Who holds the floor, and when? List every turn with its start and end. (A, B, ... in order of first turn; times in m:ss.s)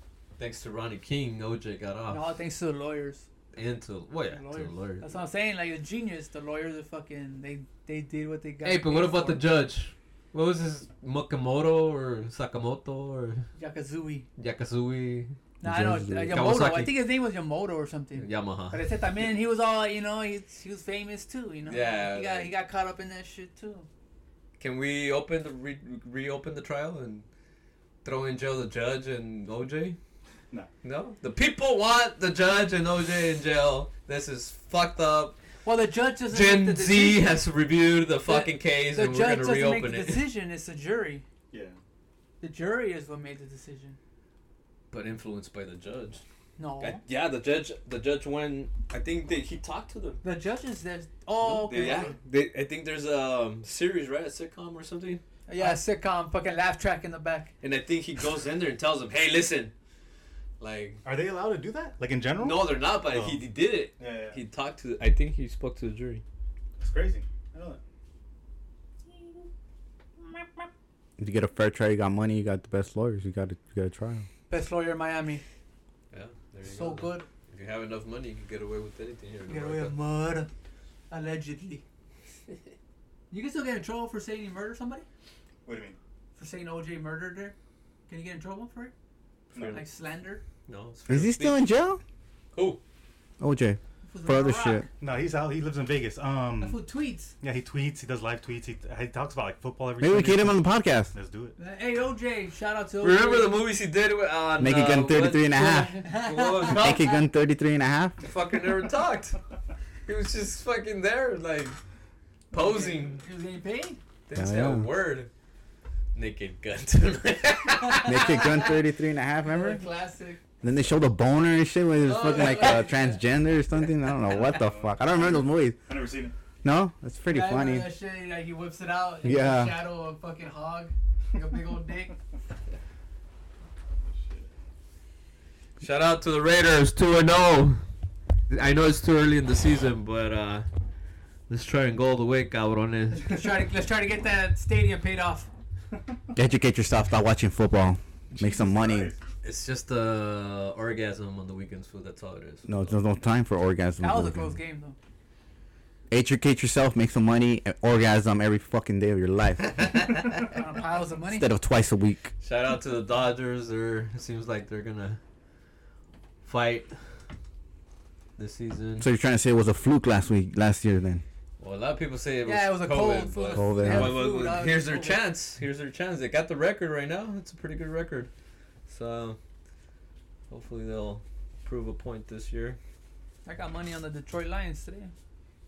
0:00.4-0:02.2 A
0:02.1-0:03.3 B
0:03.5-0:05.1 A
0:04.3-0:09.4 B
0:08.6-0:13.5 A
0:13.6-0:14.3 B
0:14.4-0:15.4 A
0:15.6-0:23.9 B
0:15.6-0:16.4 C
0:16.3-0:16.9 A
0:18.2-0:18.8 A
0:21.7-0:22.5 A
0:24.6-0:27.3 A
0:28.0-0:30.0 A
0:30.8-0:35.4 A
0:35.6-0:37.4 B
0:36.3-0:40.3 A
0:38.2-0:41.2 B
0:41.5-0:41.8 D
0:42.4-0:44.0 B
0:44.9-0:46.2 A
0:46.6-0:47.0 B
0:46.8-0:50.2 A
0:50.2-0:52.2 B
0:51.4-0:55.8 A
0:55.5-0:57.5 B
0:57.6-0:59.7 A
1:00.6-1:01.0 A
1:01.0-1:03.4 D
1:02.4-1:06.2 A
1:04.0-1:04.4 D
1:06.8-1:07.8 D
1:09.2-1:09.5 B
1:11.2-1:14.3 C
1:14.5-1:15.4 B
1:16.1-1:19.9 A
1:16.6-1:17.3 B
1:19.5-1:20.5 B
1:21.1-1:21.8 B
1:23.3-1:25.0 B
1:25.6-1:26.0 D
1:26.4-1:27.6 B
1:28.1-1:28.9 B
1:29.5-1:29.8 D
1:29.6-1:29.8 A
1:29.6-1:30.4 B
1:30.7-1:31.6 A
1:31.1-1:32.0 C
1:32.5-1:32.8 A
1:33.4-1:34.9 C
1:34.0-1:34.9 B
1:35.0-1:36.8 D
1:36.6-1:37.4 B
1:37.4-1:41.6 D
1:40.0-1:41.1 C
1:41.6-1:43.6 B
1:43.0-1:47.2 A
1:44.6-1:46.0 C
1:45.6-1:46.9 B
1:46.7-1:48.2 C
1:48.2-1:49.4 A
1:50.1-1:51.8 A
1:52.5-1:53.2 A
1:52.5-1:54.0 B
1:54.3-1:55.3 A
1:54.4-1:54.9 C
1:56.2-1:58.6 A
1:57.7-1:58.7 B
1:58.0-1:59.8 C
1:59.4-2:00.4 B
2:00.6-2:05.8 C
2:02.1-2:03.1 A
2:02.2-2:02.9 B
2:04.3-2:06.3 D
2:06.6-2:07.9 C
2:07.3-2:12.2 B
2:09.2-2:09.8 C
2:14.1-2:14.5 D
2:15.8-2:17.8 A
2:18.5-2:20.7 A
2:21.5-2:23.4 A
2:23.2-2:25.5 B
2:26.4-2:29.1 C
2:28.3-2:29.2 D
2:29.4-2:33.0 A
2:32.7-2:34.6 C
2:34.0-2:35.0 B
2:36.1-2:40.0 C
2:40.5-2:41.5 B
2:41.3-2:42.3 C
2:42.4-2:45.2 A
2:46.4-2:46.9 A
2:48.4-2:49.1 A
2:49.0-2:51.2 C
2:51.6-2:58.3 A
2:52.4-2:55.2 B
2:53.6-2:54.2 C
2:58.9-2:59.4 A
3:00.5-3:02.8 A
3:03.4-3:05.1 B